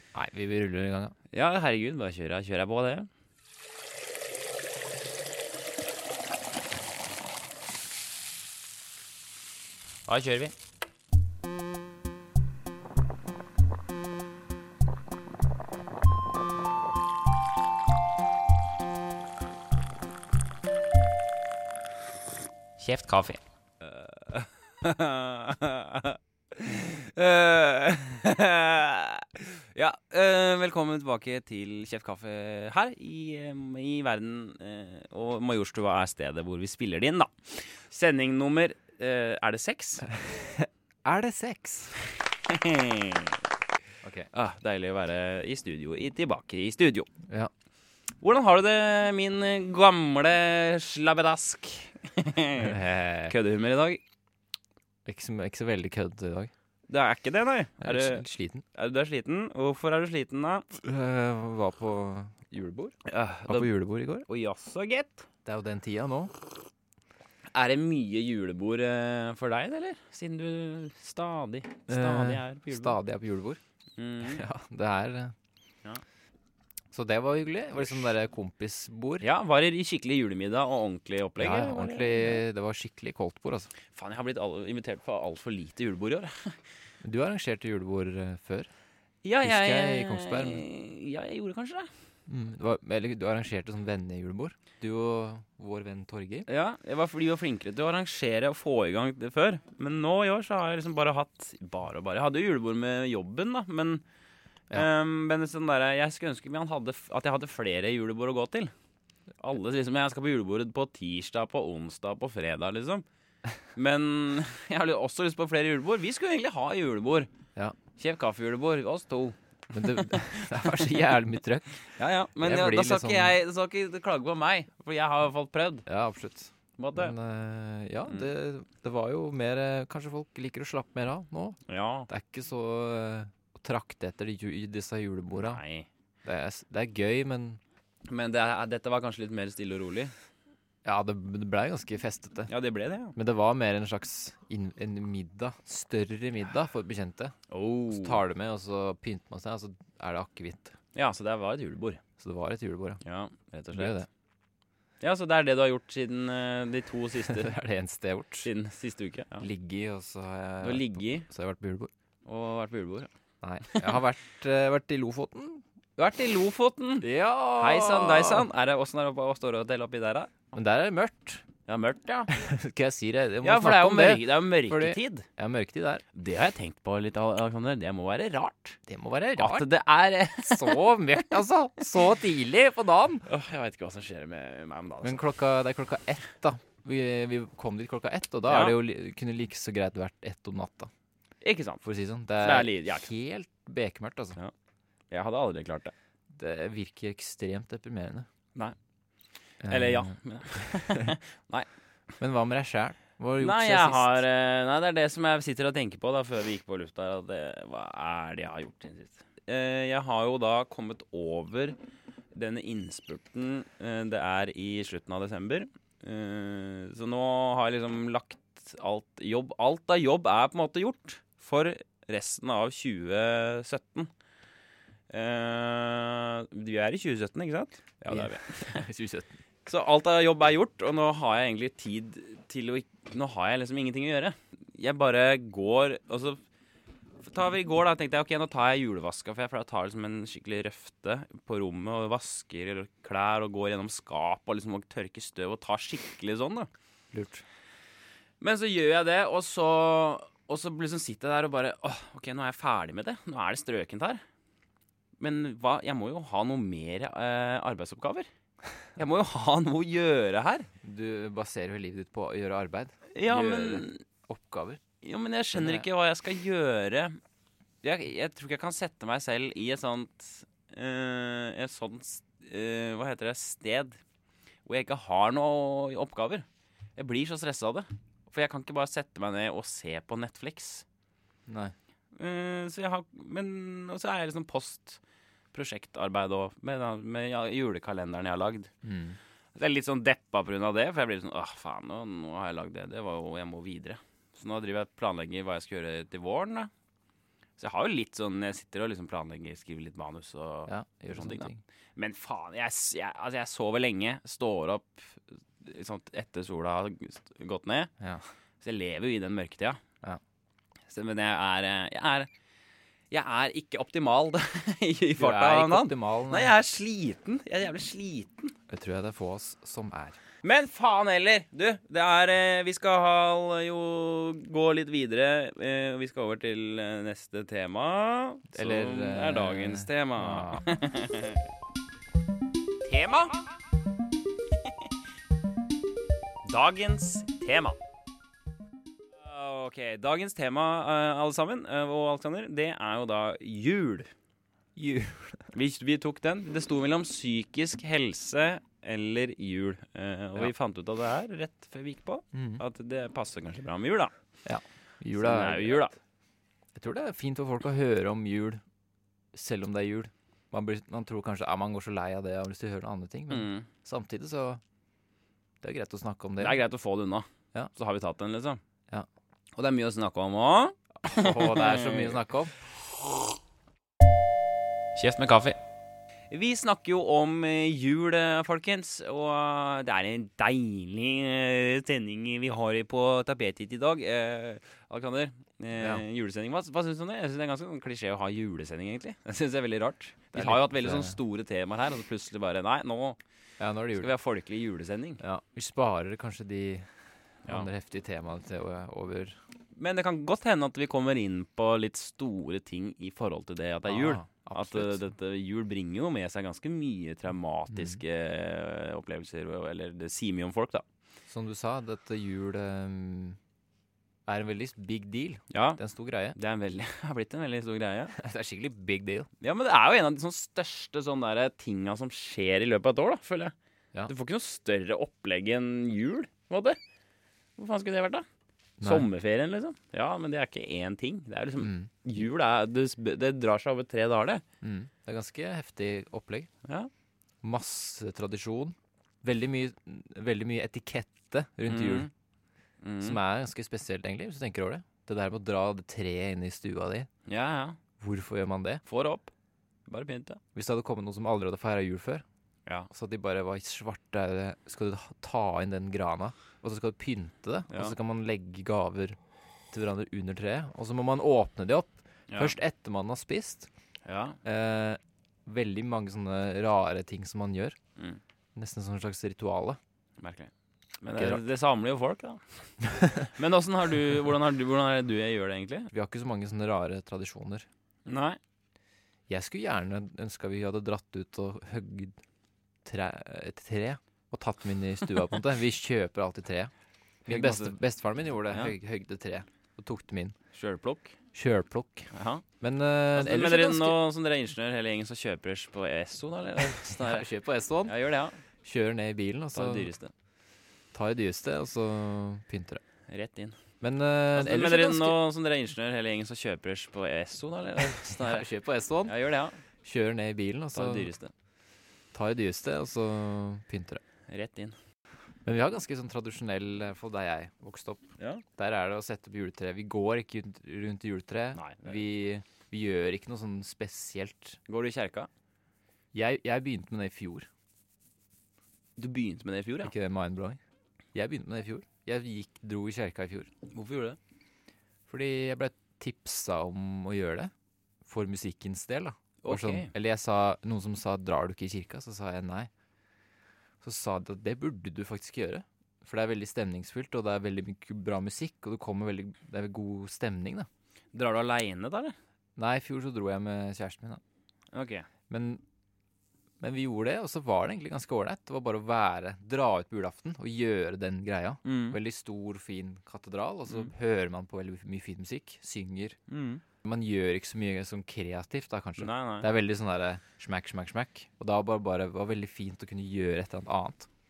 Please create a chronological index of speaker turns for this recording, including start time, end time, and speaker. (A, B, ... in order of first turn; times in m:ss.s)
0:00.1-0:01.2 A
0:01.3-0:03.1 B
0:10.1-0:10.5 B
0:22.8-0:40.1 B
0:40.2-0:42.0 A
0:42.2-0:43.4 B
0:44.0-0:44.3 A
0:44.3-0:47.1 B
0:48.2-0:54.0 B
0:52.6-0:53.3 A
0:55.0-0:56.5 A
0:56.9-1:00.7 B
0:57.8-0:58.6 A
1:00.7-1:03.0 A
1:03.1-1:03.7 B
1:03.5-1:04.3 A
1:04.3-1:05.3 B
1:05.4-1:06.3 A
1:07.5-1:13.0 B
1:11.9-1:13.6 A
1:14.0-1:14.4 B
1:14.2-1:15.3 A
1:16.9-1:19.3 A
1:19.2-1:22.4 B
1:21.4-1:23.7 A
1:23.9-1:26.6 B
1:27.0-1:28.7 A
1:29.2-1:31.9 B
1:29.4-1:30.6 A
1:32.3-1:36.5 A
1:36.5-1:44.0 B
1:44.7-1:48.7 B
1:49.4-1:53.1 B
1:53.8-1:57.3 B
1:58.0-2:00.9 B
1:59.7-2:01.8 A
2:02.0-2:05.9 B
2:02.4-2:03.4 A
2:05.9-2:15.6 A
2:06.8-2:07.2 B
2:11.7-2:12.1 B
2:15.4-2:15.9 B
2:16.2-2:17.6 A
2:18.1-2:20.1 B
2:20.8-2:22.5 A
2:22.5-2:23.2 B
2:23.2-2:27.4 A
2:27.5-2:28.2 B
2:27.9-2:30.7 A
2:31.0-2:32.0 B
2:32.2-2:33.0 A
2:33.0-2:34.0 B
2:33.7-2:34.1 A
2:35.0-2:37.5 B
2:37.3-2:38.5 A
2:38.4-2:39.5 B
2:39.4-2:41.9 A
2:40.6-2:41.3 B
2:42.3-2:43.1 B
2:43.4-2:45.6 A
2:43.7-2:44.0 B
2:46.0-2:50.4 B
2:47.0-2:48.5 A
2:50.5-2:51.4 A
2:51.7-2:52.3 B
2:52.3-2:56.0 A
2:53.4-2:55.3 B
2:56.1-2:58.8 B
2:58.9-2:59.7 A
2:59.4-3:00.9 B
3:00.4-3:03.3 A
3:03.3-3:05.2 B
3:05.0-3:10.9 A
3:08.5-3:08.8 B
3:11.4-3:11.8 B
3:11.8-3:14.4 A
3:12.4-3:13.1 B
3:15.1-3:15.9 B
3:16.3-3:18.3 A
3:19.6-3:21.2 A
3:19.6-3:21.7 B
3:22.2-3:24.2 A
3:23.4-3:31.8 B
3:32.3-3:44.1 B
3:45.1-3:48.8 B
3:48.1-3:49.4 A
3:49.7-3:56.4 B
3:57.2-4:06.7 B
4:07.1-4:07.4 A
4:08.4-4:14.2 B
4:15.2-4:18.3 B
4:19.0-4:20.7 B
4:20.8-4:24.8 A
4:23.1-4:24.0 B
4:25.0-4:27.2 B
4:25.5-4:25.9 A
4:27.8-4:34.0 B
4:34.7-4:40.8 B
4:41.5-4:41.7 A
4:42.2-4:45.0 B
4:45.5-4:48.7 B
4:48.8-4:49.2 A
4:49.6-4:56.7 B
4:57.6-5:07.9 B
5:00.7-5:01.6 A
5:08.0-5:08.2 A
5:08.6-5:09.8 B
5:10.9-5:12.3 B
5:13.1-5:18.6 B
5:15.2-5:16.5 A
5:18.7-5:20.2 A
5:20.4-5:31.4 B
5:28.5-5:30.7 A
5:32.8-5:33.4 B
5:36.4-5:37.8 B
5:39.2-5:44.1 B
5:44.8-5:45.5 A
5:45.5-5:54.1 B
5:52.3-5:52.6 A
5:54.4-5:55.8 A
5:55.2-5:56.0 B
5:56.8-5:58.6 A
5:59.3-6:04.6 A
6:03.3-6:03.7 B
6:05.6-6:06.6 A
6:06.4-6:08.6 B
6:09.6-6:12.2 B
6:11.0-6:12.5 A
6:15.0-6:15.6 B
6:16.3-6:33.2 B
6:25.8-6:26.0 A
6:30.3-6:31.2 A
6:33.6-6:34.1 A
6:34.0-6:35.2 B
6:35.2-6:36.9 A
6:37.4-6:39.4 A
6:39.8-6:50.8 B
6:43.9-6:45.0 A
6:47.7-6:48.0 A
6:51.3-6:53.4 A
6:54.3-6:56.4 A
6:55.5-6:55.8 B
6:56.4-6:58.2 B
6:58.1-6:59.3 A
6:59.4-7:03.6 B
7:04.1-7:06.8 B
7:07.6-7:08.3 B
7:08.8-7:09.1 A
7:08.8-7:14.4 B
7:11.6-7:11.9 A
7:14.6-7:16.5 A
7:16.6-7:16.9 B
7:17.4-7:22.1 A
7:21.7-7:22.1 B
7:22.8-7:23.2 B
7:23.0-7:27.1 A
7:27.3-7:27.8 B
7:28.0-7:28.8 A
7:28.9-7:29.3 B
7:29.9-7:30.4 B
7:30.6-7:32.2 A
7:32.9-7:39.2 A
7:37.7-7:38.0 B
7:39.7-7:43.7 A
7:42.3-7:42.6 B
7:44.1-7:44.4 B
7:44.4-7:47.8 A
7:48.6-7:49.8 A
7:50.2-7:52.6 B
7:51.2-7:51.4 A
7:52.9-7:53.3 A
7:53.1-7:55.9 B
7:55.9-7:57.7 A
7:58.1-7:58.4 B
7:59.3-8:02.2 A
8:02.8-8:06.7 A
8:07.3-8:07.8 B
8:07.3-8:10.4 A
8:10.5-8:11.2 B
8:11.3-8:12.1 A
8:12.1-8:12.4 B
8:12.6-8:14.0 A
8:13.1-8:17.3 B
8:16.9-8:17.9 A
8:17.8-8:18.4 B
8:18.6-8:19.9 A
8:19.5-8:20.1 B
8:20.9-8:22.8 A
8:23.1-8:23.6 B
8:23.8-8:25.2 A
8:24.3-8:28.5 B
8:28.2-8:29.1 A
8:29.0-8:29.6 B
8:29.8-8:31.1 A
8:30.7-8:31.3 B
8:32.1-8:34.0 A
8:34.3-8:34.8 B
8:35.4-8:38.0 A
8:38.2-8:38.4 B
8:38.6-8:44.6 A
8:41.6-8:42.0 B
8:44.7-8:45.3 B
8:46.1-8:47.5 A
8:49.0-8:49.9 B
8:49.8-8:50.6 A
8:51.1-8:53.5 A
8:53.7-8:54.2 B
8:55.1-8:57.5 A
8:58.0-9:02.7 A
8:59.4-8:59.9 B
9:03.8-9:10.7 A
9:11.1-9:12.2 B
9:12.6-9:14.2 A
9:14.7-9:15.1 B
9:15.3-9:15.6 A
9:16.6-9:26.2 A
9:21.6-9:22.0 B
9:26.3-9:26.6 B
9:26.8-9:34.1 A
9:29.0-9:29.5 B